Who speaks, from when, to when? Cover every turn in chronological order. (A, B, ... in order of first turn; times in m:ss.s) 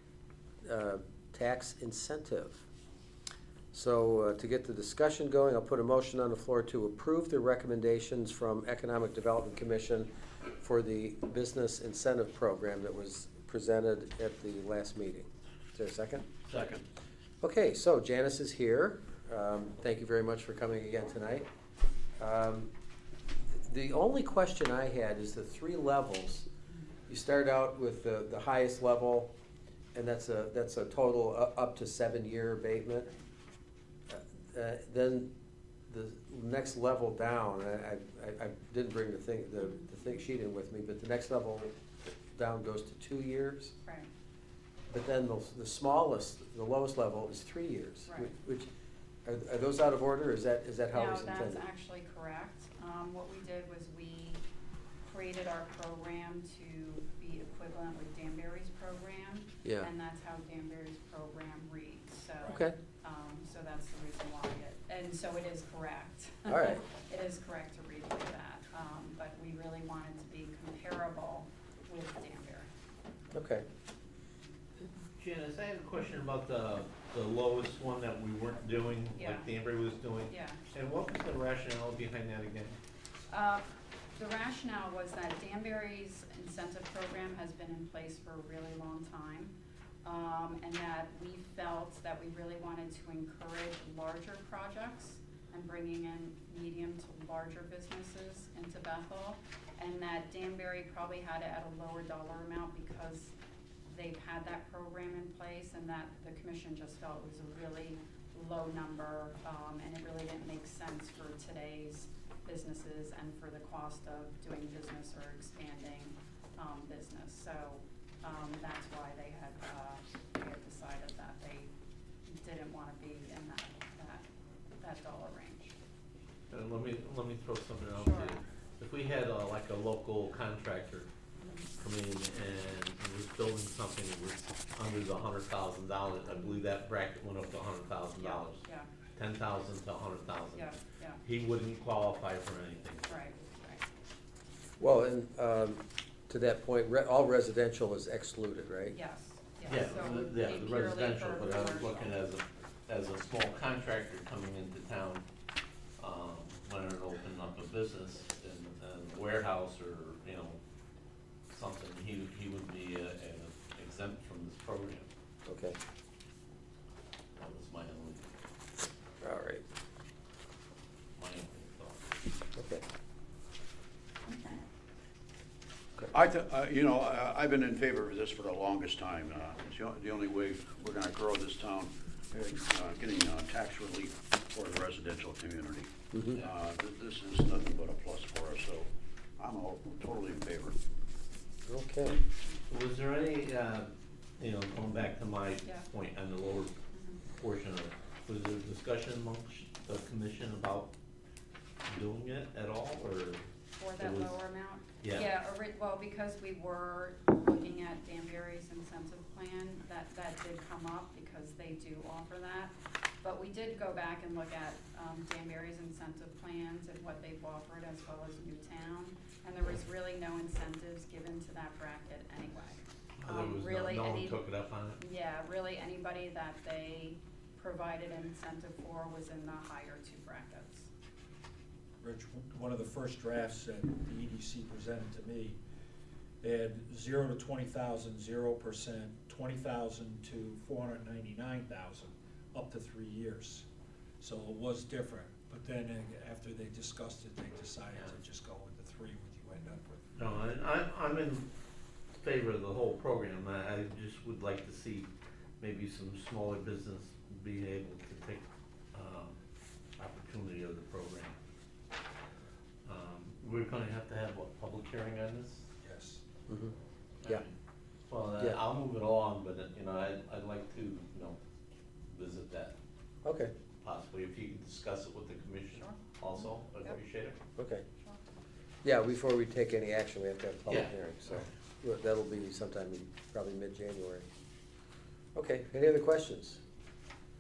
0:00.6-0:02.7 A
0:03.7-0:16.4 A
0:16.5-0:16.8 B
0:17.4-0:21.5 A
0:22.2-0:22.7 A
0:23.5-0:26.5 A
0:27.1-0:29.3 A
0:30.0-0:33.1 A
0:34.1-0:35.3 A
0:35.9-0:43.7 A
0:44.9-0:48.7 A
0:48.1-0:48.4 C
0:49.3-0:51.6 A
0:50.9-0:54.4 C
0:55.0-1:12.7 C
0:59.6-0:59.9 A
1:02.4-1:02.8 A
1:06.5-1:06.8 A
1:13.3-1:13.6 A
1:15.2-1:22.8 D
1:19.2-1:19.5 C
1:20.3-1:20.6 C
1:23.3-1:23.6 C
1:24.2-1:29.5 C
1:30.0-1:43.3 C
1:43.9-2:01.7 C
2:02.3-2:04.2 C
2:04.8-2:05.8 C
2:06.5-2:11.1 D
2:08.0-2:08.4 C
2:11.4-2:11.7 C
2:11.8-2:18.6 D
2:16.3-2:16.6 C
2:18.2-2:18.9 C
2:19.2-2:23.2 D
2:20.5-2:21.2 C
2:23.1-2:23.8 C
2:24.8-2:29.0 A
2:28.9-2:32.1 C
2:29.7-2:35.2 D
2:36.0-2:40.6 D
2:41.5-2:45.1 D
2:45.5-2:45.8 A
2:47.4-2:48.3 D
2:49.2-2:49.6 A
2:51.2-2:52.1 D
2:52.6-2:52.8 A
2:56.1-3:10.8 B
3:06.1-3:06.4 A
3:11.7-3:12.2 A
3:12.7-3:16.7 D
3:16.9-3:17.2 C
3:17.3-3:20.9 D
3:21.9-3:23.4 D
3:23.8-3:32.7 C
3:24.0-3:24.3 D
3:25.0-3:25.3 D
3:33.2-3:44.4 C
3:43.2-3:45.0 D
3:45.0-3:50.9 C
3:52.0-3:55.6 E
3:56.4-4:03.7 E
4:04.2-4:10.1 E
4:10.2-4:11.5 D
4:12.2-4:15.1 D
4:15.6-4:19.4 D
4:20.0-4:21.4 D
4:22.8-4:25.7 D
4:25.8-4:26.2 E
4:26.5-4:26.8 A
4:27.2-4:27.5 D
4:28.1-4:31.4 D
4:32.1-4:32.8 D
4:33.2-4:33.5 A
4:33.8-4:37.4 D
4:35.8-4:37.0 C
4:37.6-4:37.8 A
4:38.8-4:44.3 A
4:40.7-4:41.4 D
4:45.4-4:46.6 A